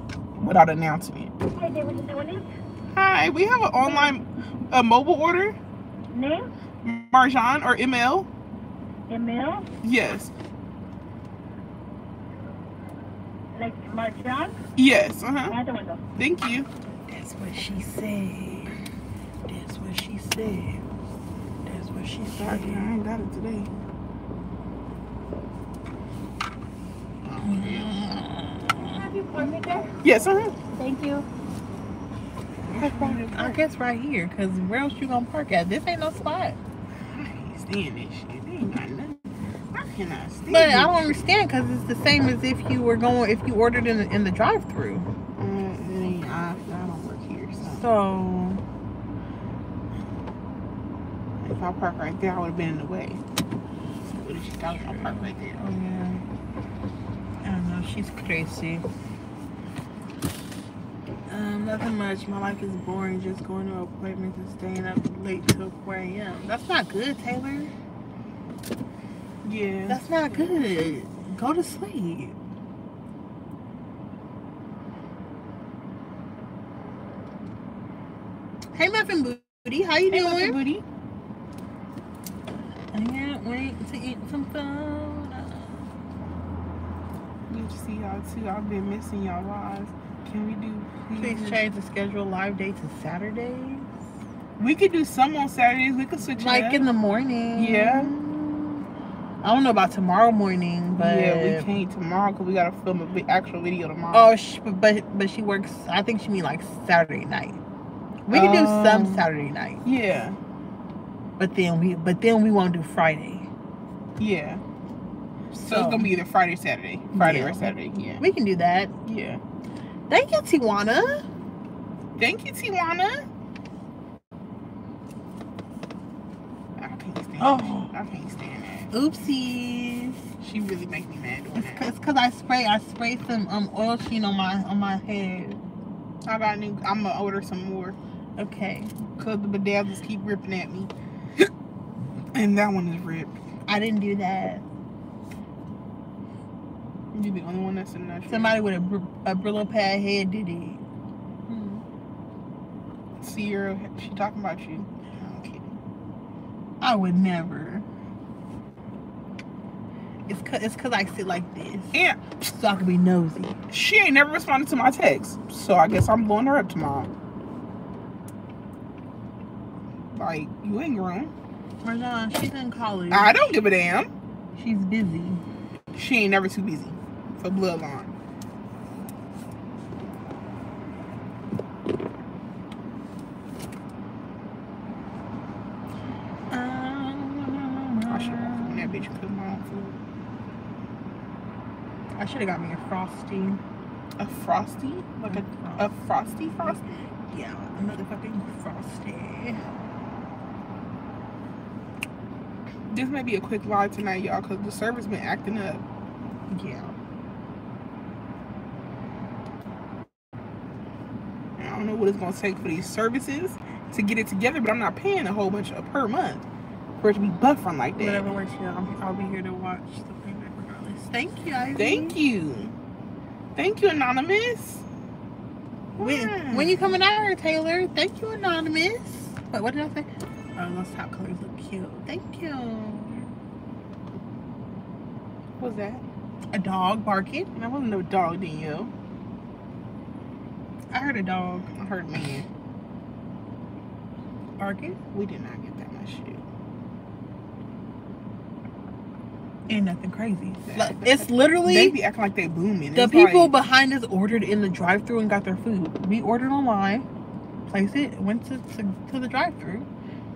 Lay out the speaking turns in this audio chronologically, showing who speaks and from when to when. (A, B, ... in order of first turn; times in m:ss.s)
0:00.4-0:01.3 A
0:01.5-0:02.4 B
0:02.9-0:05.6 A
0:03.8-0:04.1 B
0:06.1-0:06.5 B
0:06.8-0:08.3 A
0:09.1-0:09.6 B
0:09.8-0:10.3 A
0:13.5-0:14.5 B
0:14.8-0:15.6 A
0:15.5-0:16.0 B
0:16.2-0:16.7 A
0:17.1-0:18.8 C
0:19.4-0:20.8 C
0:21.6-0:22.9 C
0:22.4-0:23.7 A
0:27.2-0:27.9 A
0:27.4-0:29.9 C
0:28.9-0:30.0 B
0:30.0-0:30.5 A
0:30.8-0:31.2 C
0:32.6-0:33.6 A
0:32.8-0:36.6 C
0:37.1-0:39.2 A
0:39.7-0:41.1 A
0:40.5-0:45.1 C
0:45.4-0:47.8 A
0:47.6-0:48.6 C
0:51.4-0:53.2 A
0:54.0-0:55.6 A
0:54.8-0:56.2 C
0:57.4-0:58.8 C
1:01.3-1:07.7 C
1:09.4-1:11.0 A
1:09.9-1:12.4 C
1:18.7-1:20.6 C
1:20.1-1:20.8 A
1:22.9-1:25.9 C
1:27.5-1:31.6 A
1:31.1-1:33.9 C
1:34.6-1:36.8 A
1:36.4-1:38.9 C
1:37.5-1:38.1 A
1:39.4-1:41.7 C
1:41.0-1:44.3 A
1:44.1-1:47.6 C
1:48.2-1:49.8 C
1:48.3-1:49.3 A
1:49.8-1:50.4 A
1:51.4-1:53.5 C
1:54.2-1:54.6 A
1:55.5-1:56.2 C
1:55.6-1:58.2 A
1:57.1-1:58.9 C
1:59.0-1:59.4 A
2:00.1-2:01.2 C
2:02.2-2:03.2 A
2:06.8-2:08.9 A
2:07.4-2:07.9 C
2:08.9-2:10.2 C
2:10.4-2:11.9 A
2:11.6-2:15.6 C
2:16.2-2:18.0 A
2:18.4-2:18.9 C
2:19.2-2:21.5 A
2:22.3-2:23.3 A
2:23.7-2:24.6 C
2:27.1-2:28.6 A
2:28.3-2:30.8 C
2:31.5-2:31.8 C
2:33.2-2:35.8 A
2:36.8-2:37.8 C
2:40.3-2:43.6 C
2:41.9-2:42.2 A
2:43.7-2:47.1 A
2:50.1-2:51.3 A
2:51.8-2:53.5 C
2:53.1-2:54.1 A
2:54.5-2:55.4 C
2:55.9-2:58.1 A
3:06.5-3:08.9 C
3:08.1-3:10.0 A
3:12.2-3:13.6 C
3:14.2-3:16.9 A
3:15.2-3:15.9 C
3:17.3-3:19.6 C
3:22.9-3:25.8 A
3:26.5-3:26.9 C
3:31.6-3:36.4 A
3:37.0-3:38.2 A
3:38.0-3:42.2 C
3:41.8-3:42.7 A
3:43.5-3:44.8 A
3:46.0-3:47.0 A
3:46.0-3:53.3 C
3:55.6-3:56.0 A
3:56.5-3:57.5 C
3:57.5-3:58.9 A
4:00.9-4:01.7 C
4:01.7-4:02.4 A
4:04.6-4:05.0 C
4:05.1-4:06.4 A
4:09.7-4:12.0 C
4:10.7-4:13.5 A
4:12.9-4:17.0 C
4:17.7-4:19.9 C